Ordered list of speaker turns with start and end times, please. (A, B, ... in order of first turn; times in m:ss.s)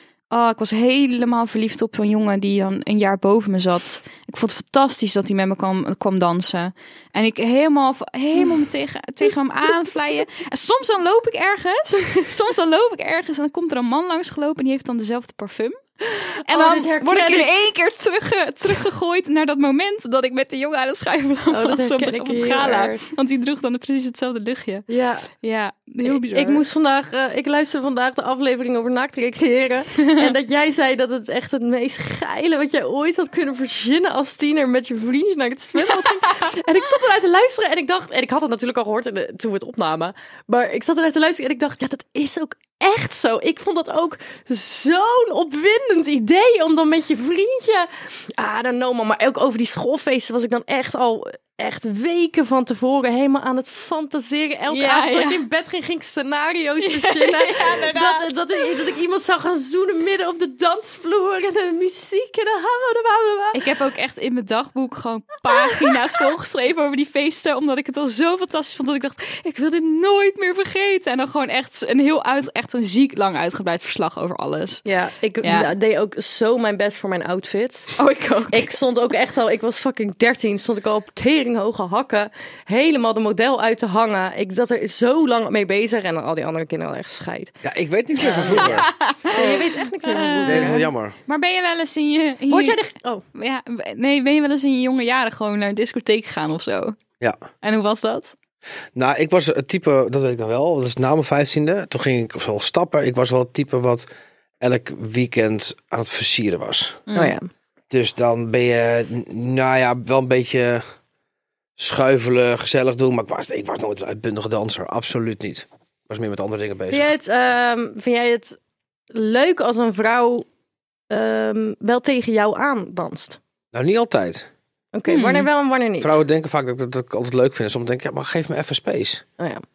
0:00.3-0:15.8 A
0:16.1-0:17.5 B
0:16.5-0:24.9 A
0:21.5-0:23.0 B
0:24.9-0:25.3 B
0:25.4-0:26.6 A
0:26.0-1:03.6 B
0:54.7-0:55.5 A
0:56.8-0:58.7 A
1:03.5-1:14.8 A
1:05.6-1:06.0 B
1:14.8-1:18.0 B
1:15.4-1:15.7 A
1:18.0-1:18.7 A
1:18.5-1:27.5 B
1:27.6-1:28.9 C
1:28.2-1:30.9 B
1:28.2-1:32.8 A
1:30.4-1:31.2 C
1:32.5-1:33.2 B
1:33.3-1:37.0 A
1:37.6-1:38.3 A
1:39.0-1:44.1 C
1:44.6-1:47.0 C
1:47.1-1:47.3 A
1:47.1-1:47.5 B
1:47.9-1:50.8 C
1:51.8-1:57.1 C
1:56.9-1:58.6 B
1:59.1-2:00.5 B
2:01.1-2:03.4 B
2:03.7-2:04.5 C
2:04.9-2:06.2 B
2:05.1-2:05.5 A
2:06.0-2:09.2 C
2:09.4-2:09.6 B